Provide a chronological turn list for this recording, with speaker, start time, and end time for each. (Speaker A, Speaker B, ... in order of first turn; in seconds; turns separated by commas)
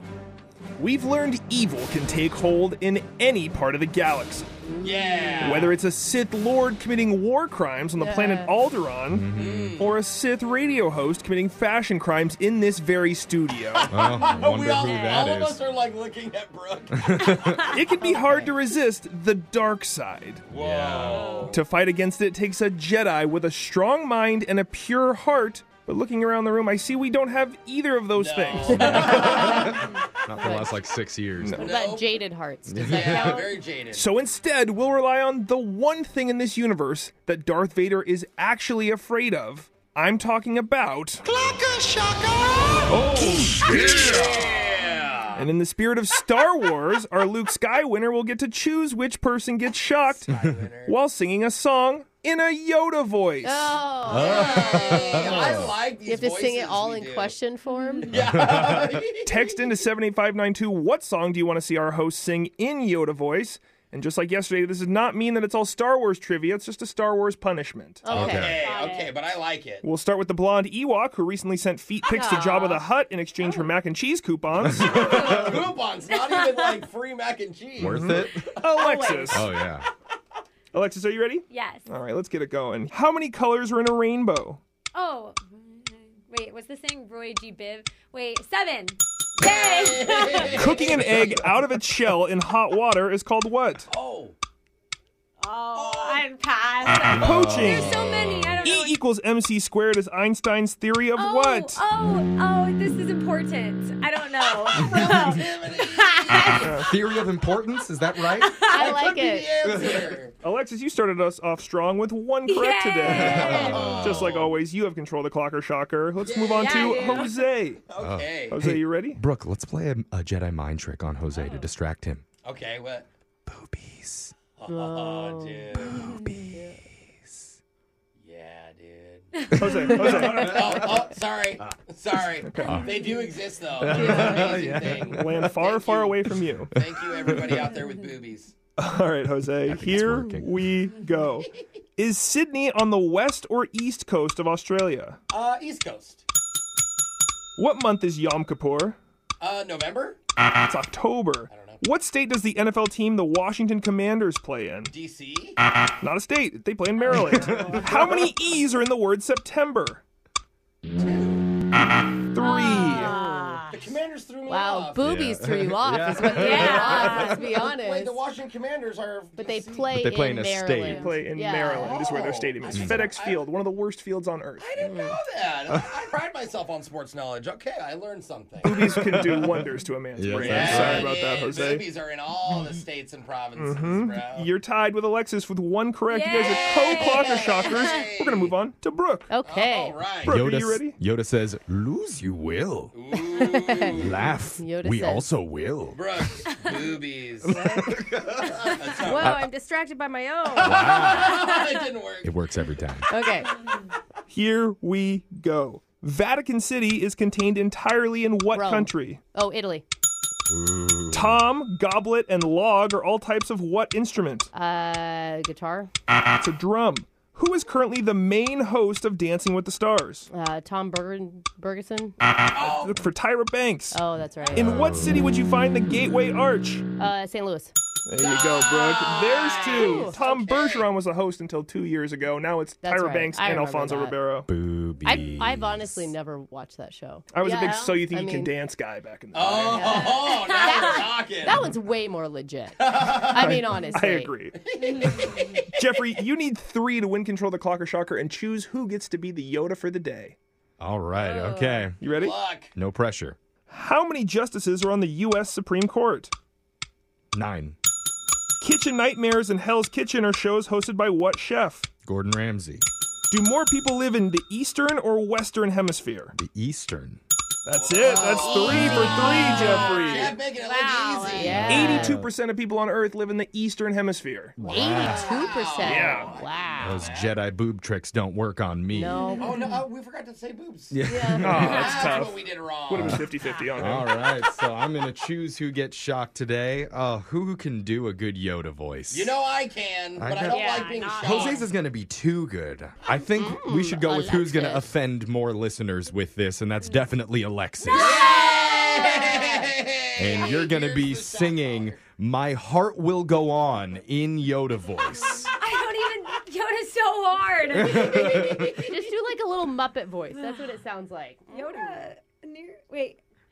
Speaker A: 0.8-4.5, Speaker B: 4.6-5.6, Speaker C: 4.8-5.7, Speaker A: 5.4-13.9, Speaker B: 8.0-8.5, Speaker D: 9.1-9.8, Speaker C: 9.3-10.0, Speaker C: 13.7-17.2, Speaker D: 13.9-15.6, Speaker E: 14.8-15.3, Speaker D: 17.0-17.6, Speaker E: 17.3-17.8, Speaker A: 17.7-20.4, Speaker B: 18.0-18.5, Speaker C: 20.5-21.6, Speaker D: 20.5-21.3, Speaker E: 21.0-21.6, Speaker A: 21.5-29.2, Speaker C: 28.1-29.8, Speaker D: 28.7-31.6, Speaker B: 28.9-30.8, Speaker A: 31.4-31.7, Speaker C: 31.5-32.2, Speaker B: 31.6-33.6, Speaker D: 32.7-33.4, Speaker C: 32.8-34.1, Speaker A: 33.9-41.2, Speaker C: 42.3-42.9, Speaker D: 42.9-44.4, Speaker A: 42.9-44.3, Speaker C: 43.6-45.5, Speaker A: 45.3-50.3, Speaker C: 50.1-51.0, Speaker A: 50.8-53.8, Speaker B: 53.4-58.1, Speaker D: 54.0-55.7, Speaker C: 54.1-57.4, Speaker E: 57.7-58.0, Speaker C: 58.0-59.4, Speaker D: 58.1-59.0, Speaker A: 59.2-68.3, Speaker B: 68.0-68.6, Speaker C: 68.0-69.8, Speaker D: 68.1-68.6, Speaker E: 68.5-69.2, Speaker A: 69.8-75.3, Speaker B: 72.1-72.8, Speaker E: 72.2-72.5, Speaker B: 73.4-73.7, Speaker D: 74.6-75.7, Speaker C: 74.8-78.7, Speaker E: 76.1-76.8, Speaker D: 77.8-78.4, Speaker A: 77.8-79.5, Speaker B: 78.7-79.5, Speaker D: 79.3-79.9, Speaker A: 80.7-84.6, Speaker E: 81.5-81.9, Speaker E: 84.9-91.0, Speaker C: 89.4-91.5, Speaker A: 90.4-93.9, Speaker C: 93.9-94.3, Speaker E: 95.4-99.0, Speaker C: 95.7-96.3, Speaker A: 97.1-98.0, Speaker D: 97.1-98.4, Speaker A: 98.6-101.8, Speaker E: 101.2-106.7, Speaker C: 104.6-106.8, Speaker D: 106.3-109.0, Speaker A: 106.6-106.9, Speaker E: 108.2-108.9, Speaker B: 108.6-109.5, Speaker C: 108.6-110.3, Speaker D: 109.6-110.1, Speaker A: 110.4-117.8, Speaker E: 112.5-114.0, Speaker D: 113.0-114.4, Speaker C: 113.1-114.5, Speaker C: 116.2-117.3, Speaker E: 116.5-117.4, Speaker C: 117.9-118.6, Speaker D: 118.0-122.2, Speaker A: 118.5-119.2, Speaker E: 121.3-121.7, Speaker C: 122.4-123.1, Speaker D: 123.5-124.3, Speaker C: 124.6-126.1, Speaker B: 124.7-125.7, Speaker D: 126.0-126.6, Speaker E: 126.0-126.4, Speaker B: 126.5-126.8, Speaker D: 127.2-127.5, Speaker C: 128.2-138.6, Speaker A: 129.5-130.8, Speaker D: 129.7-130.6, Speaker A: 132.4-132.8, Speaker D: 132.6-133.0, Speaker D: 133.8-135.5, Speaker B: 133.9-134.7, Speaker A: 135.1-136.7, Speaker D: 136.7-137.6, Speaker E: 137.4-137.8, Speaker A: 138.8-145.2, Speaker D: 139.7-140.6, Speaker C: 145.3-146.2, Speaker A: 147.6-149.0, Speaker C: 149.4-150.2, Speaker A: 150.6-154.9, Speaker C: 151.5-151.8, Speaker C: 154.9-155.6, Speaker A: 156.0-160.0, Speaker D: 157.3-157.7, Speaker C: 161.0-161.5, Speaker A: 162.3-163.2, Speaker E: 162.4-163.7, Speaker B: 162.8-163.8, Speaker C: 163.7-165.0, Speaker B: 164.5-168.2, Speaker D: 165.0-167.4, Speaker E: 166.3-167.4, Speaker C: 167.2-169.9, Speaker B: 169.4-172.0, Speaker D: 169.9-171.1, Speaker A: 170.9-174.7, Speaker C: 171.7-173.5, Speaker D: 172.7-173.0, Speaker C: 174.6-179.0, Speaker B: 174.8-175.2, Speaker A: 178.6-181.9, Speaker D: 178.7-179.6, Speaker D: 180.2-181.1, Speaker C: 180.4-184.5, Speaker A: 183.6-189.3, Speaker E: 186.1-188.0, Speaker C: 186.9-188.5, Speaker B: 189.3-190.0, Speaker C: 189.4-190.4, Speaker A: 190.2-190.9, Speaker D: 190.2-192.9, Speaker C: 192.9-194.3, Speaker B: 193.1-195.3, Speaker D: 193.9-196.5, Speaker C: 195.9-197.6, Speaker D: 197.4-198.5, Speaker C: 198.4-199.4, Speaker B: 199.0-201.0, Speaker D: 199.1-199.5, Speaker C: 200.5-202.3, Speaker D: 200.6-201.5, Speaker E: 201.4-201.7, Speaker D: 202.2-203.1, Speaker B: 203.1-203.5, Speaker A: 204.3-209.2, Speaker B: 208.5-209.8, Speaker D: 210.5-211.4, Speaker A: 211.1-214.5, Speaker B: 214.5-215.9, Speaker A: 216.4-220.3, Speaker B: 220.3-222.2, Speaker C: 222.5-223.0, Speaker A: 222.6-224.0, Speaker B: 223.9-224.9, Speaker D: 224.5-225.2, Speaker A: 224.5-226.8, Speaker B: 227.0-227.7, Speaker A: 228.1-234.5, Speaker C: 228.2-230.9, Speaker B: 229.6-230.2, Speaker B: 232.8-234.2, Speaker D: 234.5-236.1, Speaker B: 235.0-238.5, Speaker A: 237.3-240.1, Speaker C: 239.3-241.7, Speaker B: 239.6-244.3, Speaker C: 242.8-243.5, Speaker A: 243.4-244.6, Speaker C: 244.6-246.1, Speaker E: 244.8-245.6, Speaker A: 245.7-250.3, Speaker D: 250.8-252.0, Speaker E: 251.2-251.9, Speaker A: 252.0-252.3, Speaker C: 252.1-252.7, Speaker D: 252.8-253.4, Speaker A: 253.7-256.3, Speaker D: 257.3-257.8, Speaker A: 258.6-261.9, Speaker D: 262.1-262.8, Speaker A: 263.3-266.3, Speaker D: 266.4-267.2, Speaker A: 267.6-270.4, Speaker C: 267.7-271.8, Speaker B: 268.1-272.2, Speaker D: 271.4-272.3, Speaker A: 271.7-274.6, Speaker D: 274.6-275.4, Speaker B: 274.6-277.0, Speaker C: 274.9-277.4, Speaker A: 275.8-276.3, Speaker D: 276.8-279.2, Speaker B: 278.9-279.7, Speaker E: 279.2-279.5, Speaker C: 279.4-280.9, Speaker D: 280.9-281.9, Speaker B: 281.0-281.6, Speaker A: 281.4-284.1, Speaker C: 281.5-283.2, Speaker E: 281.6-282.2, Speaker D: 282.9-289.3, Speaker C: 289.1-291.6, Speaker D: 290.2-298.2, Speaker E: 290.5-291.7, Speaker B: 293.3-294.9, Speaker E: 297.8-299.3, Speaker C: 297.9-302.0, Speaker B: 299.0-299.6, Speaker D: 300.2-305.5, Speaker E: 305.6-309.1, Speaker D: 307.7-308.7, Speaker B: 308.7-312.1, Speaker E: 310.4-310.6, Speaker E: 311.5-313.2